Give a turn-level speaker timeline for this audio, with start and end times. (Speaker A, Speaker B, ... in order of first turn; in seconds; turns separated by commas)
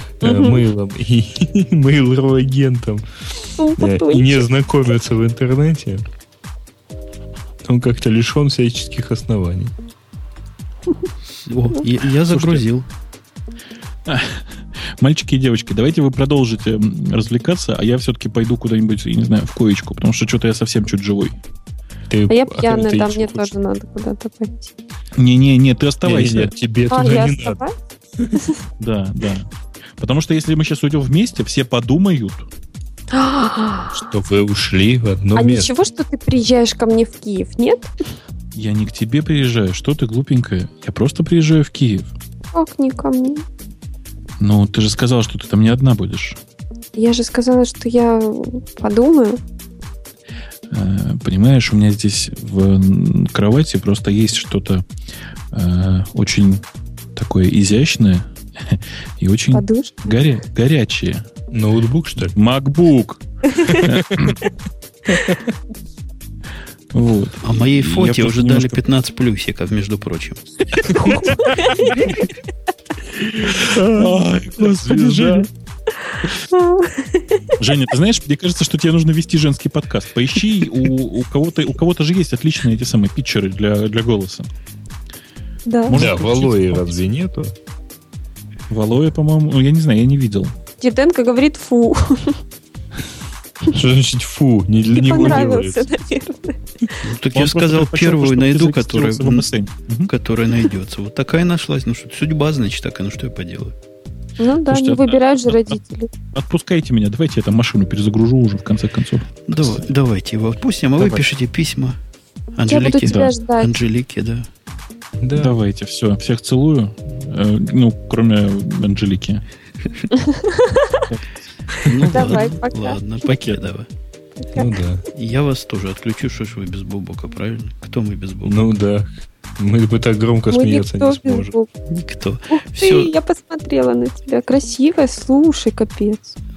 Speaker A: 0.2-3.1, Speaker B: 0.2-0.6, Speaker B: 3.6-4.5, Speaker A: 3.8-6.0, Speaker A: 7.7-9.7, Speaker C: 11.3-12.9, Speaker D: 12.3-12.6, Speaker D: 14.1-21.4, Speaker A: 22.1-23.5, Speaker B: 22.3-24.7, Speaker D: 25.1-26.5, Speaker A: 26.0-27.6, Speaker B: 26.9-27.8, Speaker D: 28.8-32.5, Speaker B: 33.1-34.0, Speaker A: 33.9-35.7, Speaker B: 35.4-37.9, Speaker D: 38.5-42.1, Speaker B: 42.5-43.5, Speaker D: 44.4-46.4, Speaker B: 47.0-49.4, Speaker D: 50.7-54.9, Speaker D: 55.5-56.6, Speaker D: 57.1-61.2, Speaker B: 59.5-60.1, Speaker A: 61.5-62.3, Speaker D: 62.2-64.4, Speaker A: 63.7-64.3, Speaker A: 65.1-65.5, Speaker D: 66.9-68.8, Speaker C: 67.4-71.0, Speaker D: 70.9-72.1, Speaker A: 73.4-75.5, Speaker D: 73.5-75.5, Speaker B: 76.5-77.5, Speaker D: 77.6-84.5, Speaker B: 85.7-86.0, Speaker D: 85.8-87.0, Speaker A: 85.9-87.5, Speaker D: 88.7-90.5, Speaker B: 90.8-92.4, Speaker A: 93.7-95.8, Speaker B: 94.9-97.0, Speaker C: 97.0-99.5, Speaker D: 97.3-100.1, Speaker C: 100.1-103.8, Speaker B: 104.4-106.1, Speaker D: 104.7-105.8, Speaker D: 106.3-109.8, Speaker C: 109.5-112.0, Speaker C: 112.6-114.5, Speaker B: 112.7-113.8, Speaker D: 113.0-113.3, Speaker A: 115.2-115.6, Speaker D: 115.3-119.4, Speaker B: 120.1-121.0, Speaker C: 121.8-123.9, Speaker B: 122.1-123.0, Speaker B: 124.4-124.7, Speaker A: 124.5-125.1, Speaker C: 125.1-128.7, Speaker A: 128.4-131.5, Speaker B: 130.5-131.7, Speaker C: 131.9-133.1, Speaker B: 132.5-136.4